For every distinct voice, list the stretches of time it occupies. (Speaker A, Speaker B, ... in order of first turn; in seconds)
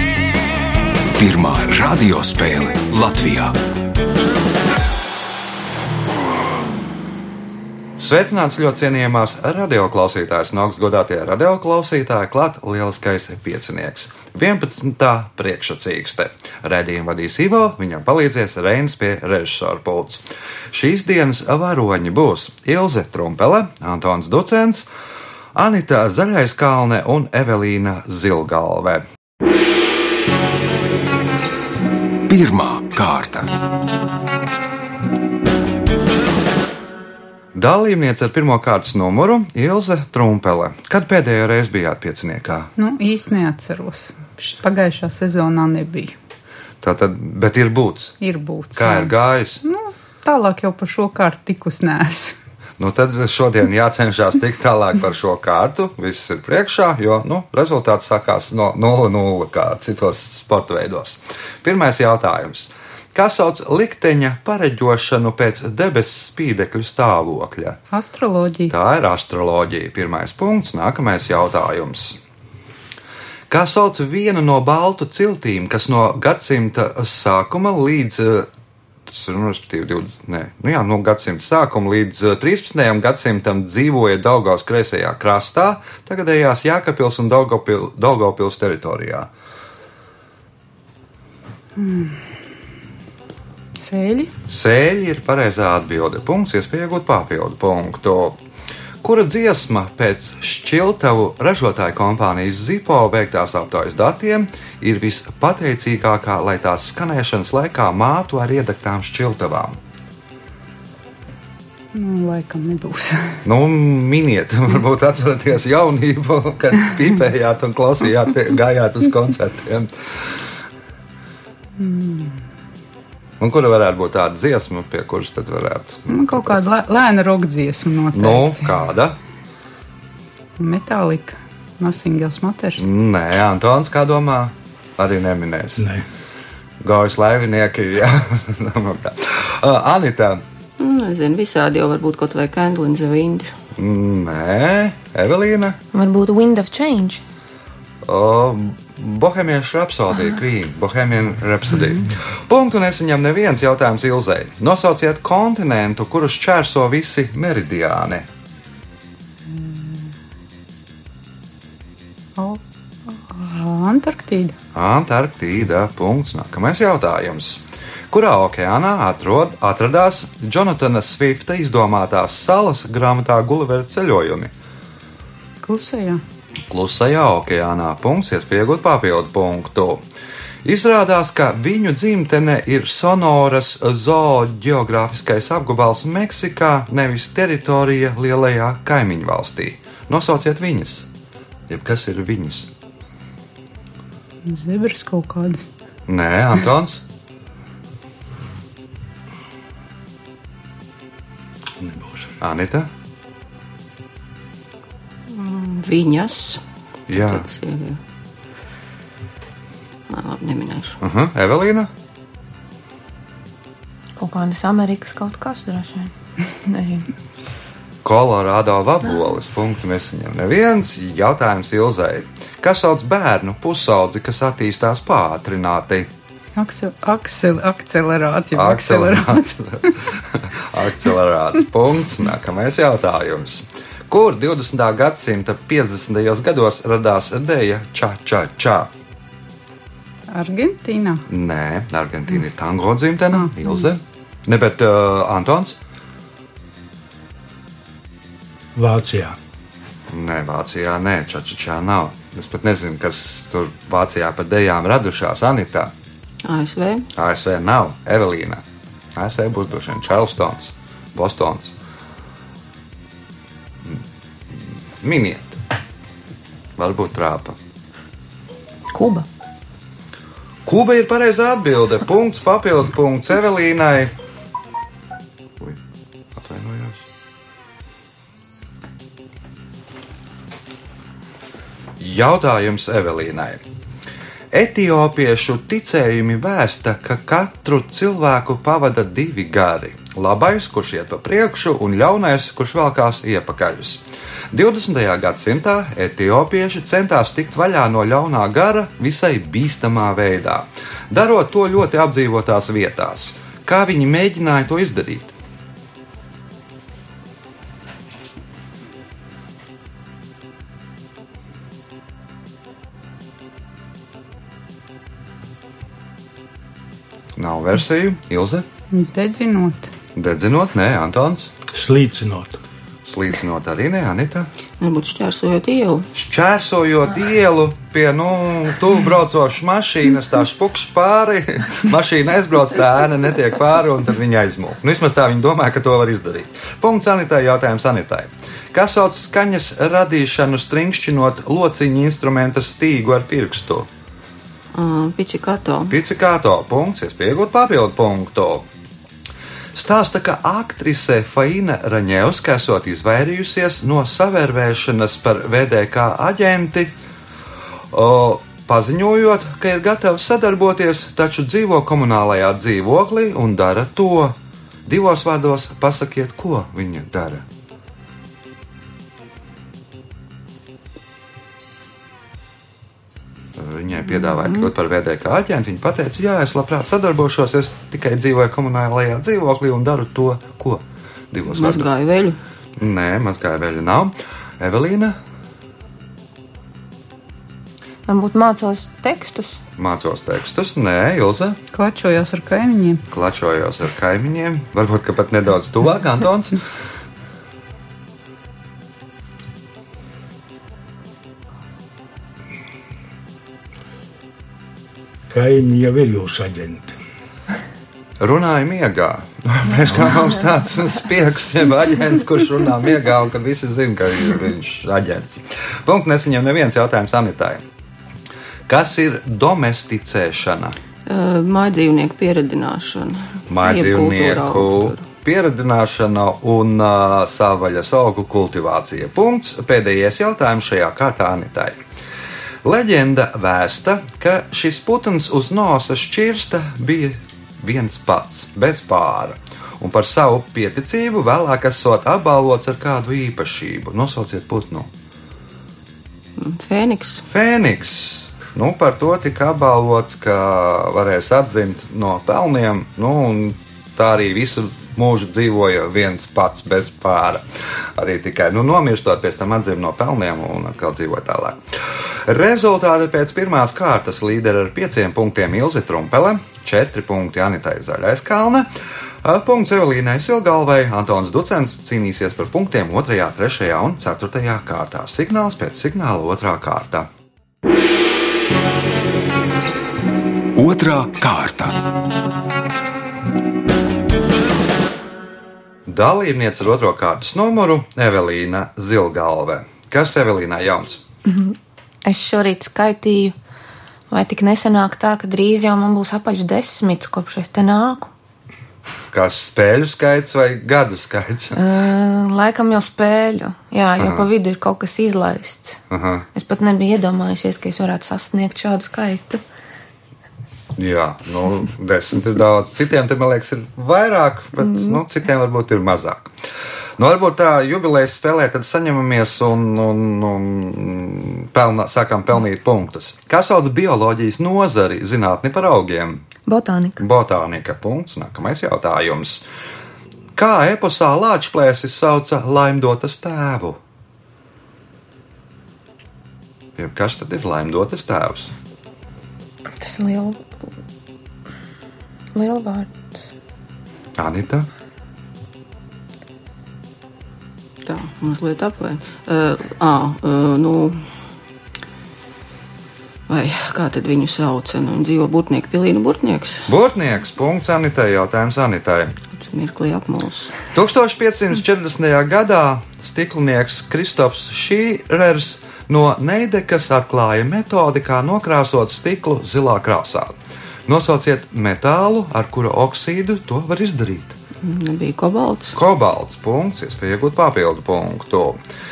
Speaker A: 1.2-3.6, 32.3-33.5, 480.6-481.8
Speaker B: 8.0-24.9, 25.6-29.1, 37.6-42.7, 46.8-48.2, 48.7-49.6, 52.8-67.8, 68.7-72.2, 73.5-78.5, 79.1-89.3, 94.5-98.4, 99.0-109.8, 113.5-119.9, 123.4-126.7, 128.1-129.2, 132.8-135.9, 136.8-140.4, 143.8-145.8, 148.0-158.3, 164.8-174.5, 176.7-180.0, 180.6-191.1, 191.7-192.7, 196.1-197.0, 202.4-202.9, 207.1-207.5, 211.0-211.9, 218.0-226.1, 228.5-238.9, 241.3-245.8, 250.1-255.9, 257.1-258.6, 259.2-261.7, 265.0-265.6, 266.8-267.6, 270.7-274.1, 276.4-277.1, 282.0-283.6, 284.5-305.3, 317.4-318.7, 320.1-321.5, 323.1-324.5, 326.1-343.9, 345.9-348.7, 349.7-356.9, 357.9-364.4, 364.9-367.4, 373.6-381.9, 382.8-385.2, 389.8-391.6, 393.1-396.6, 408.2-417.6, 418.7-420.8, 423.5-431.8, 432.6-444.9, 447.2-457.4, 458.0-468.7, 469.2-477.1, 485.9-491.0, 499.1-501.6, 504.0-504.3, 505.9-506.3, 510.8-516.3, 517.0-526.2, 527.0-529.4, 530.4-533.8, 536.8-538.5, 544.2-544.7, 556.7-559.1, 560.7-570.3, 570.9-574.4, 575.7-578.6
Speaker C: 42.8-46.1, 48.2-52.4, 67.9-68.7, 91.8-92.3, 93.8-94.3, 111.9-113.4, 121.8-122.4, 126.1-128.7, 130.6-132.9, 159.5-160.1, 162.4-164.6, 175.6-176.2, 194.4-195.7, 226.6-229.9, 240.3-241.2, 318.9-319.9, 391.7-393.0
Speaker D: 135.8-136.0, 201.8-202.3, 248.8-249.4, 321.7-322.6, 405.3-407.0
Speaker E: 140.8-143.5, 205.3-208.0, 210.1-211.0, 256.4-257.1, 324.8-326.1, 344.7-345.9, 381.5-382.4, 421.1-425.0, 446.4-447.2, 547.8-551.0, 553.3-556.7, 559.3-560.5, 574.6-575.8
Speaker F: 145.9-147.2, 214.2-216.1, 216.6-217.1, 268.9-269.3, 388.1-389.6, 492.1-493.4, 494.1-498.1, 501.6-505.8, 506.3-509.4, 526.5-527.0, 539.8-540.5, 542.3-543.2